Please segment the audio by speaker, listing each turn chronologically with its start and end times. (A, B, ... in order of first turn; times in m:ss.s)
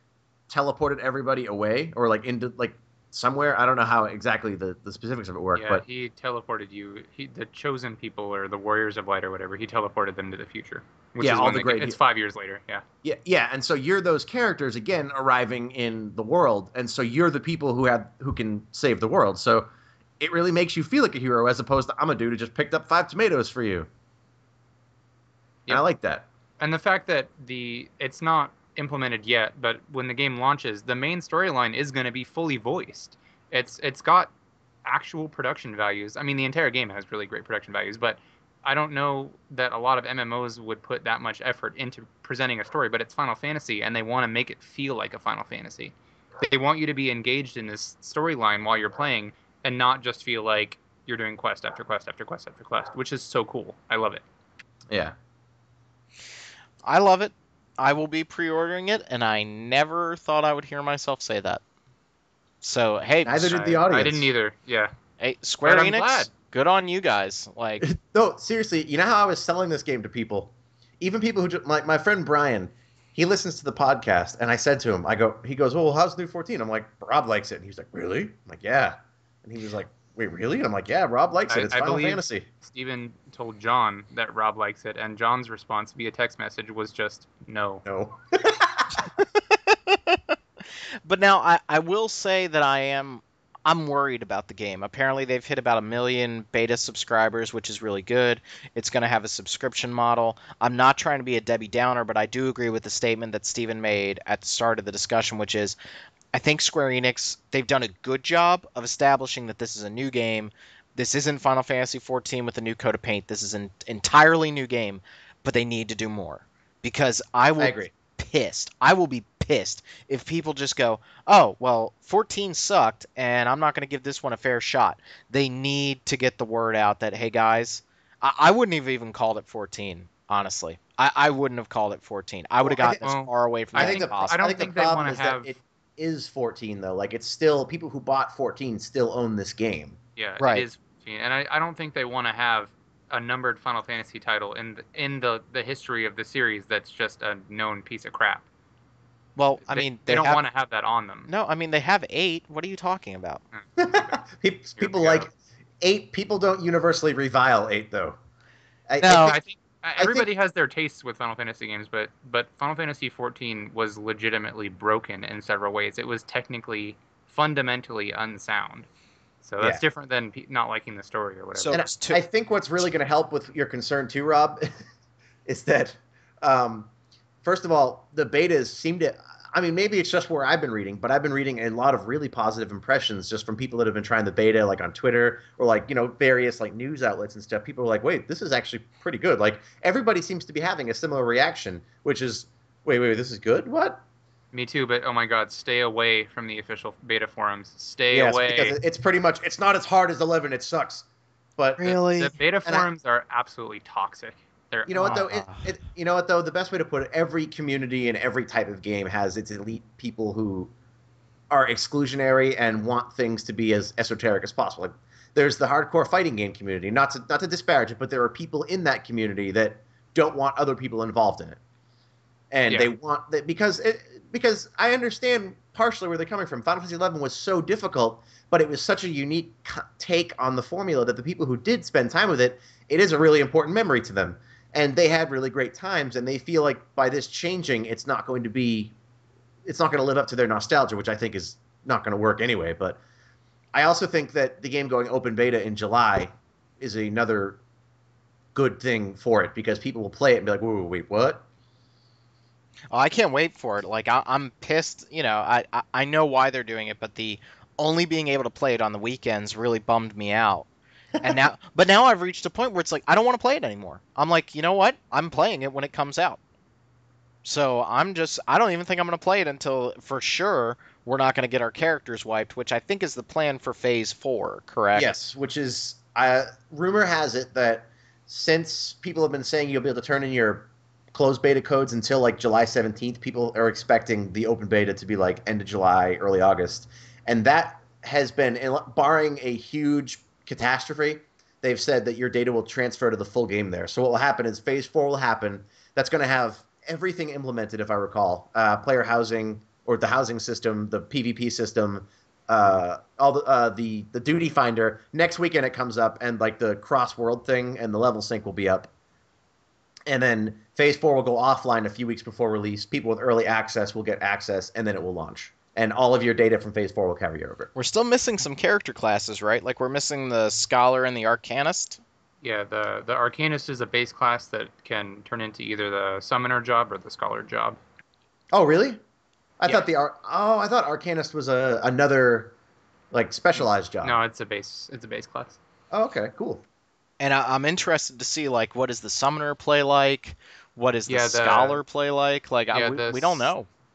0:00.5-0:05.8 A
0:05.5-0:12.8 B
0:11.2-0:12.0 A
0:13.0-0:19.7 A
0:20.2-0:23.9 A
0:25.7-0:26.2 A
0:26.6-0:34.3 B
0:34.8-0:54.2 B
0:54.9-0:55.2 A
0:56.8-1:01.6 C
1:02.6-1:03.5 C
1:03.2-1:04.3 A
1:03.5-1:04.9 B
1:05.2-1:07.9 C
1:05.6-1:06.3 B
1:07.8-1:22.4 A
1:21.5-1:27.8 B
1:27.8-1:29.1 A
1:29.5-1:30.2 C
1:31.0-1:45.8 C
1:46.3-2:14.4 C
1:57.6-1:57.9 A
2:12.6-2:13.0 A
2:12.9-2:15.5 B
2:13.8-2:20.0 A
2:20.2-2:28.4 B
2:20.4-2:20.6 C
2:29.4-2:30.4 C
2:29.7-2:31.3 B
2:31.3-2:33.4 C
2:33.6-2:34.2 B
2:33.8-2:38.2 A
2:34.8-2:35.3 B
2:38.9-2:39.4 A
2:39.0-2:39.4 C
2:39.2-2:48.9 B
2:40.0-2:40.2 A
2:49.4-2:51.8 B
2:51.5-2:52.2 C
2:51.7-2:54.7 A
2:55.4-2:56.9 A
2:57.4-3:14.0 A
3:14.5-3:18.8 B
3:18.1-3:21.0 A
3:21.6-3:22.0 A
3:21.8-3:22.4 C
3:22.1-3:25.2 B
3:24.9-3:30.7 A
3:25.0-3:25.7 C
3:31.5-3:41.6 A
3:42.5-3:58.9 A
3:59.6-4:03.0 A
4:03.7-4:07.6 A
4:08.5-4:11.4 A
4:12.9-4:20.7 C
4:21.2-4:26.4 C
4:27.4-4:35.2 C
4:34.9-5:08.9 A
5:10.1-5:17.7 A
5:17.8-5:22.0 C
5:22.4-5:27.8 B
5:28.5-5:29.0 A
5:29.6-5:32.5 A
5:33.1-5:34.2 A
5:34.0-5:35.6 B
5:35.9-5:36.6 A
5:37.2-5:43.7 C
5:41.1-5:41.8 B
5:42.7-5:43.5 B